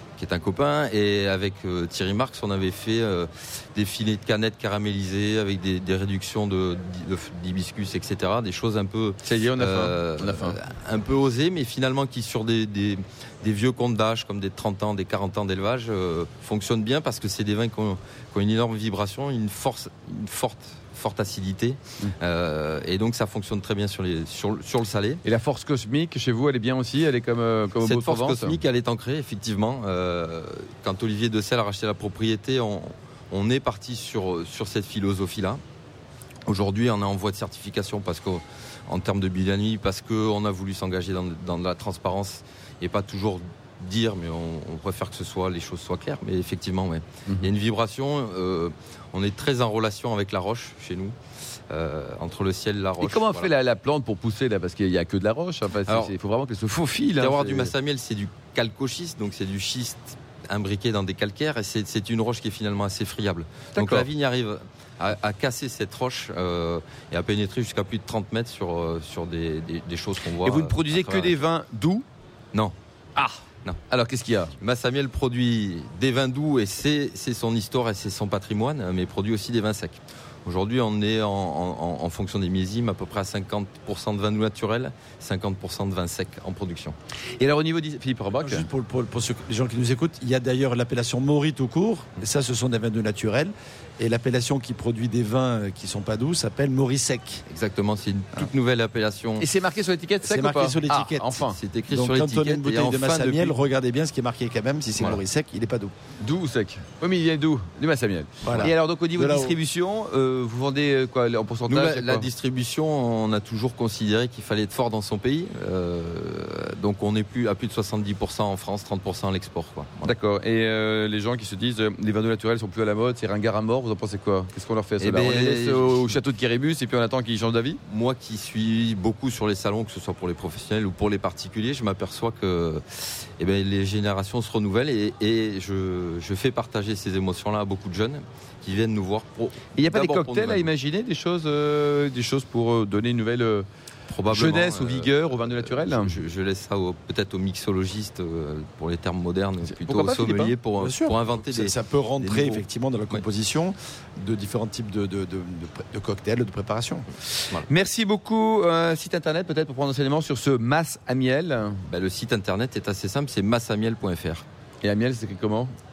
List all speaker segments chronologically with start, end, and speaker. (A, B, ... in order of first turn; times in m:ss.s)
0:00.2-0:25.2 A
0:09.2-0:10.6 B
0:25.2-0:28.6 B
0:27.8-0:35.6 A
0:36.5-0:51.2 A
0:51.7-0:53.5 A
0:53.0-0:57.7 B
0:55.9-0:56.1 A
0:57.2-1:11.4 A
1:03.8-1:04.1 B
1:10.4-1:12.0 B
1:12.5-1:13.8 A
1:13.9-1:14.5 B
1:14.6-1:27.0 A
1:27.4-1:28.7 B
1:28.4-1:37.4 C
1:37.5-1:39.5 A
1:39.4-1:41.6 B
1:40.2-1:45.9 C
1:41.6-1:43.5 A
1:46.2-1:52.3 B
1:48.4-1:49.6 C
1:51.7-2:00.1 A
2:00.0-2:07.8 B
2:05.0-2:06.0 A
2:07.8-2:20.7 A
2:19.8-2:23.7 B
2:24.1-2:32.6 A
2:24.3-2:26.2 B
2:29.7-2:30.6 B
2:30.8-2:37.1 C
2:37.7-2:41.8 B
2:41.9-2:44.4 A
2:44.8-2:45.7 B